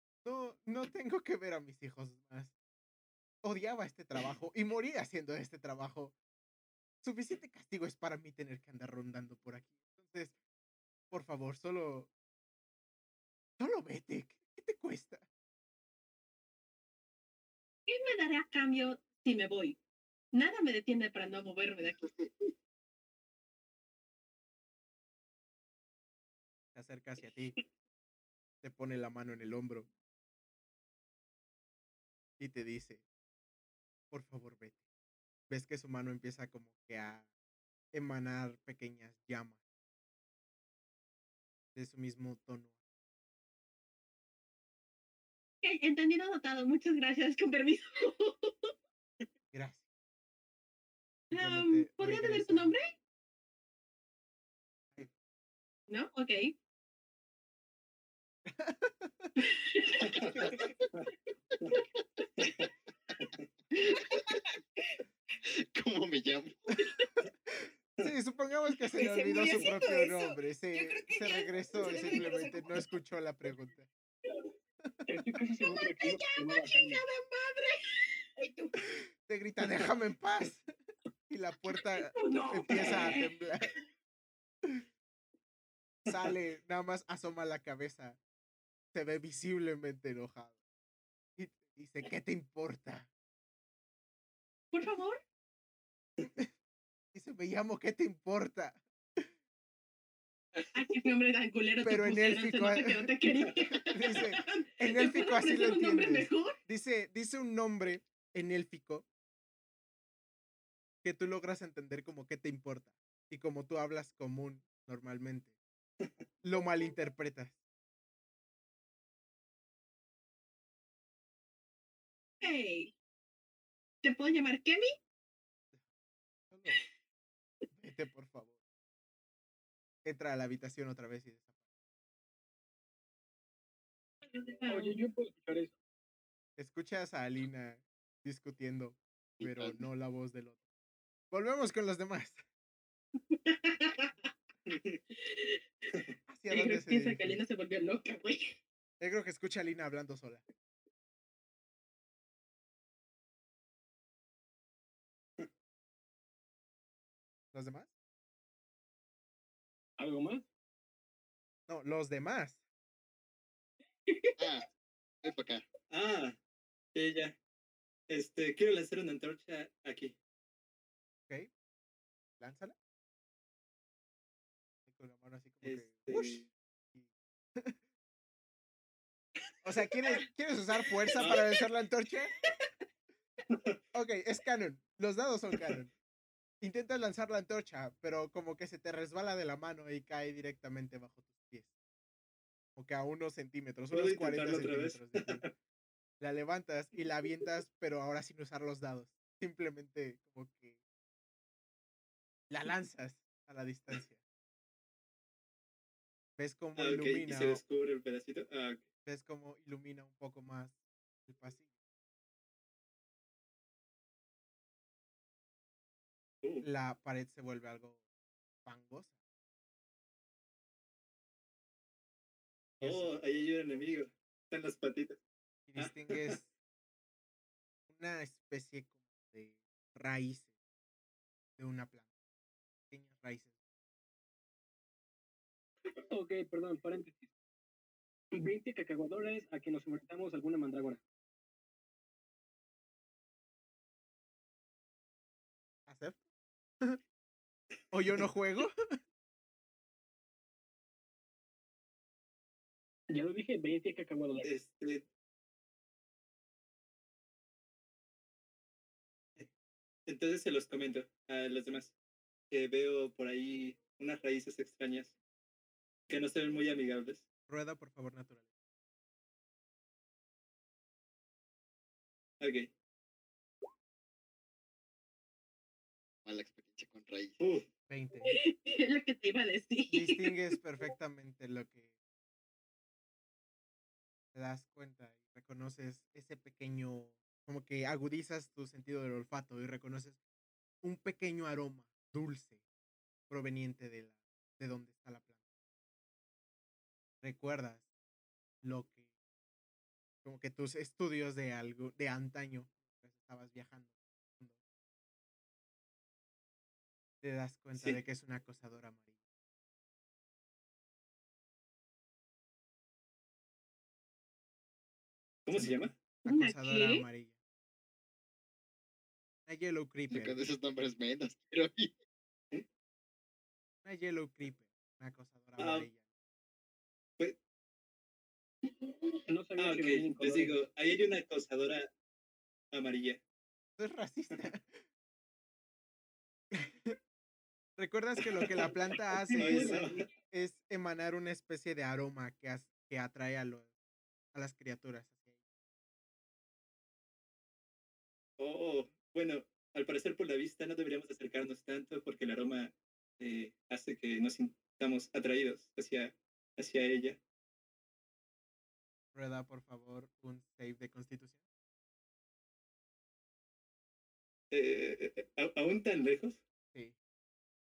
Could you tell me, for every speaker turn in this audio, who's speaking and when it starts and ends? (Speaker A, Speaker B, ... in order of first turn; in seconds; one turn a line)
Speaker A: 0.2-2.5
Speaker A: 3.4-6.1
Speaker A: 7.0-10.3
Speaker A: 11.1-12.1
Speaker A: 13.6-15.2
Speaker B: 17.9-19.8
Speaker B: 20.3-22.1
Speaker A: 26.7-27.6
Speaker A: 28.6-29.9
Speaker A: 32.4-33.0
Speaker A: 34.1-34.8
Speaker A: 35.5-37.3
Speaker A: 37.9-39.6
Speaker A: 41.7-42.7
Speaker B: 45.6-48.7
Speaker A: 49.5-49.8
Speaker B: 51.3-52.9
Speaker A: 51.3-52.7
Speaker B: 55.9-56.5
Speaker A: 58.5-59.4
Speaker B: 59.4-60.6
Speaker C: 60.0-61.0
Speaker C: 62.4-63.5
Speaker D: 63.9-64.4
Speaker D: 65.4-66.7
Speaker A: 67.5-73.9
Speaker E: 69.0-72.7
Speaker A: 74.8-75.2
Speaker F: 75.1-77.0
Speaker B: 75.6-78.1
Speaker E: 78.4-78.7
Speaker A: 78.8-80.7
Speaker A: 81.3-83.7
Speaker B: 82.0-83.3
Speaker A: 86.0-88.2
Speaker A: 88.9-90.6
Speaker A: 91.4-93.1
Speaker B: 94.7-95.2
Speaker A: 96.2-96.5
Speaker A: 97.1-99.3
Speaker B: 100.7-106.6
Speaker A: 101.8-103.1
Speaker A: 103.7-109.0
Speaker A: 111.0-115.5
Speaker A: 116.4-117.6
Speaker B: 122.4-122.9
Speaker B: 124.0-125.0
Speaker A: 126.5-126.8
Speaker A: 127.7-128.6
Speaker A: 130.0-131.5
Speaker B: 134.2-135.0
Speaker F: 134.7-135.7
Speaker A: 136.6-140.6
Speaker D: 139.4-139.8
Speaker A: 141.3-142.4
Speaker B: 143.2-144.2
Speaker C: 144.7-145.0
Speaker B: 145.1-145.6
Speaker A: 146.3-147.4
Speaker B: 146.5-148.6
Speaker A: 149.0-150.4
Speaker A: 157.5-157.9
Speaker F: 160.0-160.4
Speaker A: 161.7-162.6
Speaker B: 164.1-164.3
Speaker D: 164.4-164.7
Speaker D: 165.2-165.7
Speaker C: 165.9-166.3
Speaker C: 166.9-167.3
Speaker C: 168.1-170.1
Speaker A: 172.4-172.7
Speaker A: 174.8-177.8
Speaker C: 175.6-176.5
Speaker A: 179.6-182.3
Speaker C: 183.5-183.8
Speaker A: 183.9-185.9
Speaker A: 186.6-191.7
Speaker A: 192.8-195.4
Speaker C: 193.9-195.5
Speaker A: 196.2-200.8
Speaker A: 202.5-204.2
Speaker A: 206.4-207.6
Speaker C: 206.8-208.8
Speaker A: 209.0-211.7
Speaker A: 216.6-218.0
Speaker A: 218.6-219.1
Speaker A: 222.8-223.1
Speaker C: 222.8-225.2
Speaker A: 225.7-226.5
Speaker C: 225.8-226.4
Speaker A: 227.9-230.5
Speaker A: 231.6-232.1
Speaker A: 232.9-233.5
Speaker F: 236.1-237.3
Speaker F: 238.3-241.0
Speaker A: 245.9-246.2
Speaker A: 247.9-249.0
Speaker F: 253.1-254.5
Speaker C: 254.4-255.1
Speaker C: 260.1-261.9
Speaker C: 262.5-265.1
Speaker C: 266.1-267.2
Speaker A: 267.5-268.5
Speaker C: 272.4-272.7
Speaker D: 276.2-277.5
Speaker C: 277.4-277.7
Speaker A: 277.9-278.4
Speaker B: 278.3-280.3
Speaker A: 279.9-281.9
Speaker A: 284.3-290.2
Speaker A: 290.8-292.6
Speaker A: 293.3-295.4
Speaker A: 297.2-297.9
Speaker A: 298.6-299.1
Speaker A: 300.2-304.6
Speaker A: 307.2-309.2
Speaker C: 307.7-308.0
Speaker C: 315.4-316.0
Speaker A: 315.5-317.4
Speaker B: 316.2-317.0
Speaker A: 319.4-320.4
Speaker D: 320.1-321.9
Speaker A: 323.8-326.0
Speaker C: 325.6-325.9
Speaker F: 329.3-330.6
Speaker C: 329.6-331.9
Speaker C: 332.7-333.2
Speaker A: 333.8-334.8
Speaker A: 336.5-337.0
Speaker A: 337.8-343.7
Speaker C: 338.2-338.8
Speaker C: 339.3-340.0
Speaker F: 339.3-340.1
Speaker A: 344.3-345.4
Speaker C: 348.4-357.2
Speaker A: 359.1-361.4
Speaker C: 364.5-366.4